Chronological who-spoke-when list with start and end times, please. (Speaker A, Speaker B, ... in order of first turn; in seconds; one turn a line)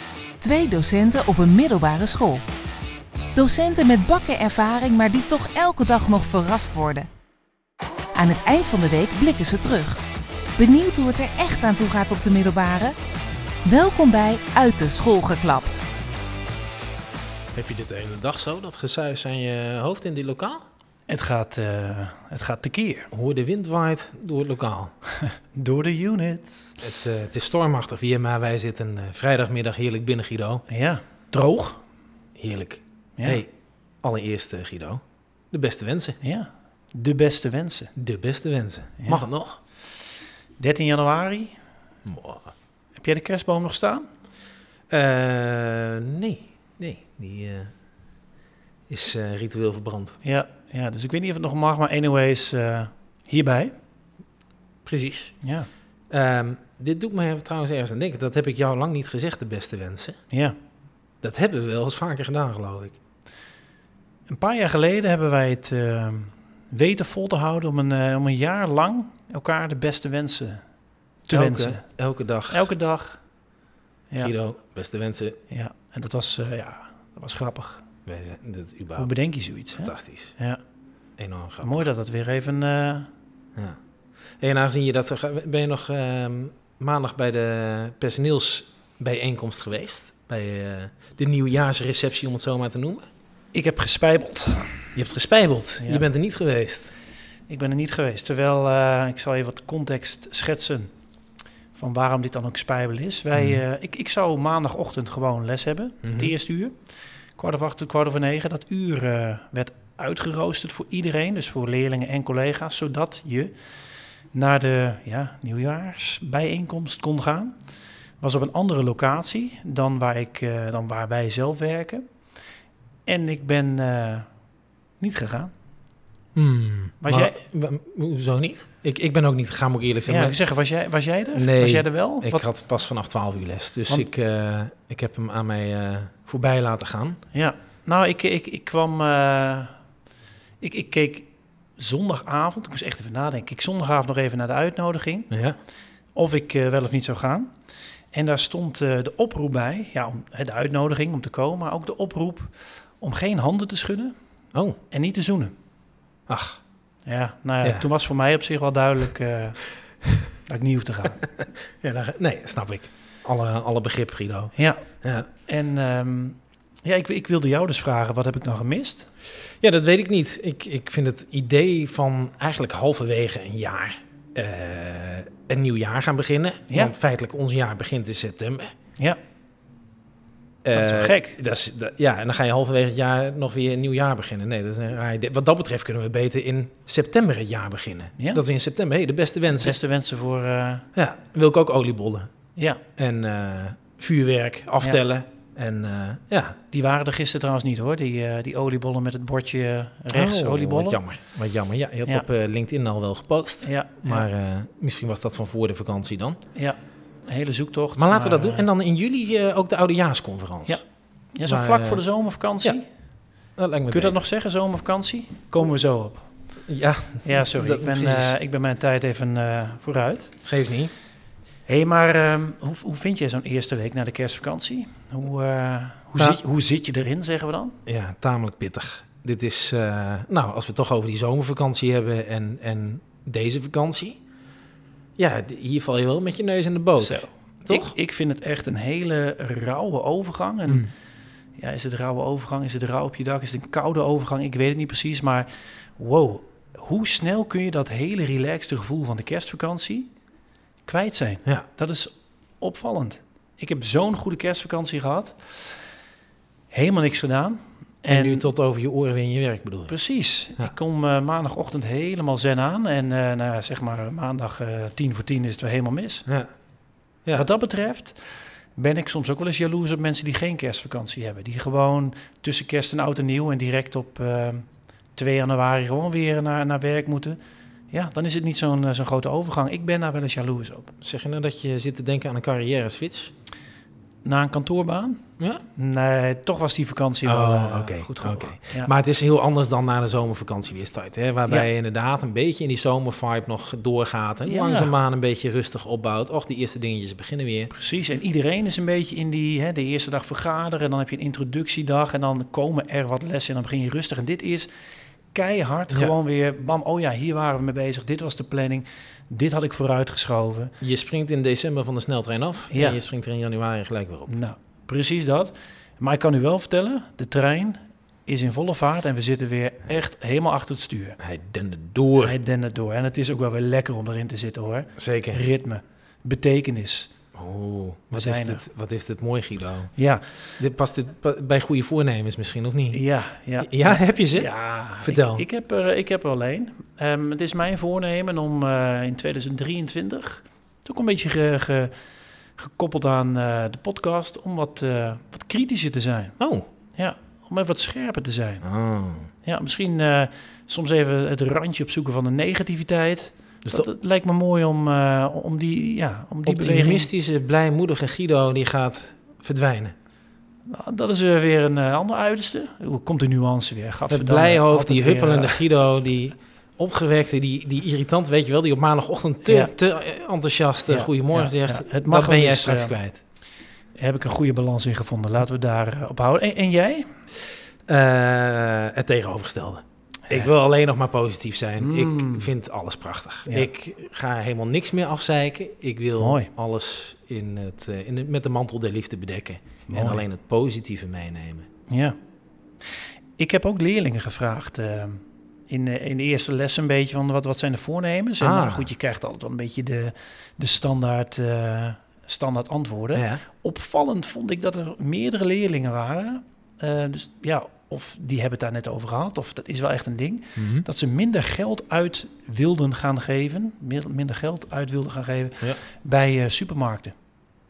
Speaker A: 0.4-2.4
Speaker A: 3.3-7.1
Speaker A: 8.1-10.0
Speaker A: 10.6-12.9
Speaker A: 13.6-15.8
Speaker B: 17.5-20.6
Speaker C: 21.1-23.1
Speaker B: 23.1-24.9
Speaker C: 25.5-26.8
Speaker B: 26.8-30.6
Speaker C: 30.7-31.8
Speaker B: 32.4-33.5
Speaker C: 33.2-33.4
Speaker B: 34.0-36.2
Speaker C: 36.2-37.9
Speaker B: 38.0-39.6
Speaker C: 40.6-41.6
Speaker B: 42.0-42.5
Speaker C: 43.0-44.0
Speaker B: 44.9-47.7
Speaker B: 48.9-50.2
Speaker C: 50.2-53.7
Speaker B: 54.9-55.3
Speaker C: 55.4-55.7
Speaker B: 56.1-60.2
Speaker C: 60.3-60.5
Speaker B: 61.2-63.0
Speaker C: 64.3-70.6
Speaker C: 71.2-71.8
Speaker B: 71.3-72.7
Speaker C: 72.5-73.2
Speaker B: 74.2-75.4
Speaker C: 75.5-77.8
Speaker B: 78.0-79.1
Speaker C: 79.0-80.6
Speaker B: 79.8-80.3
Speaker B: 81.2-81.8
Speaker C: 81.6-83.1
Speaker B: 84.4-93.0
Speaker C: 93.5-94.9
Speaker B: 95.0-96.9
Speaker C: 95.8-96.1
Speaker C: 97.5-100.9
Speaker C: 101.7-106.8
Speaker B: 103.3-103.6
Speaker B: 106.0-106.3
Speaker C: 107.3-113.5
Speaker C: 114.3-117.6
Speaker C: 118.2-122.0
Speaker C: 123.0-124.3
Speaker C: 125.0-125.5
Speaker B: 126.3-130.4
Speaker C: 127.0-127.4
Speaker C: 130.1-132.5
Speaker B: 131.3-137.2
Speaker C: 137.3-139.7
Speaker C: 140.6-145.3
Speaker B: 145.3-145.6
Speaker C: 146.1-147.5
Speaker C: 148.1-154.1
Speaker C: 154.9-155.5
Speaker B: 156.3-156.6
Speaker C: 157.0-159.6
Speaker B: 157.6-157.9
Speaker C: 160.4-161.3
Speaker B: 161.8-165.3
Speaker C: 164.5-164.8
Speaker C: 165.4-169.1
Speaker B: 169.6-178.7
Speaker C: 176.7-176.9
Speaker B: 180.6-189.8
Speaker C: 180.7-181.3
Speaker C: 189.6-190.9
Speaker B: 190.9-192.3
Speaker C: 192.6-192.8
Speaker B: 193.0-196.6
Speaker C: 196.7-201.0
Speaker B: 200.1-206.4
Speaker C: 203.6-204.3
Speaker C: 206.5-208.7
Speaker B: 208.0-210.8
Speaker C: 211.3-212.8
Speaker B: 211.4-212.0
Speaker B: 213.6-214.2
Speaker C: 213.9-216.3
Speaker B: 216.7-218.3
Speaker C: 217.2-220.3
Speaker B: 220.4-220.9
Speaker C: 221.7-227.8
Speaker B: 227.8-234.2
Speaker B: 235.2-237.9
Speaker C: 237.0-240.9
Speaker C: 241.6-250.1
Speaker C: 250.8-255.8
Speaker C: 256.7-258.5
Speaker B: 258.1-259.9
Speaker C: 259.9-266.3
Speaker C: 267.3-277.4
Speaker C: 277.9-280.9
Speaker B: 281.0-283.3
Speaker C: 284.2-285.2
Speaker B: 285.4-285.6
Speaker C: 285.7-288.9
Speaker B: 287.2-297.7
Speaker C: 294.4-294.9
Speaker C: 297.7-304.7
Speaker C: 305.3-310.7
Speaker B: 310.8-314.3
Speaker C: 312.7-313.0
Speaker C: 314.3-321.2
Speaker B: 321.2-322.4
Speaker C: 322.2-327.1
Speaker B: 325.0-325.4
Speaker B: 327.3-329.9
Speaker C: 328.1-328.6
Speaker C: 329.9-330.2
Speaker B: 330.6-333.0
Speaker C: 332.9-341.9
Speaker B: 333.6-335.4
Speaker C: 342.6-346.4
Speaker B: 346.4-346.6
Speaker C: 346.9-348.6
Speaker B: 348.6-349.3
Speaker C: 349.4-357.1
Speaker B: 356.4-359.9
Speaker C: 360.7-365.6
Speaker B: 364.1-373.2
Speaker C: 369.4-369.7
Speaker C: 370.9-373.0
Speaker C: 373.9-377.1
Speaker B: 377.9-391.7
Speaker C: 381.8-382.5
Speaker C: 386.2-386.5
Speaker C: 389.9-390.2
Speaker C: 391.9-392.1
Speaker C: 393.4-417.1
Speaker B: 398.4-398.9
Speaker B: 403.1-403.4
Speaker B: 410.6-410.9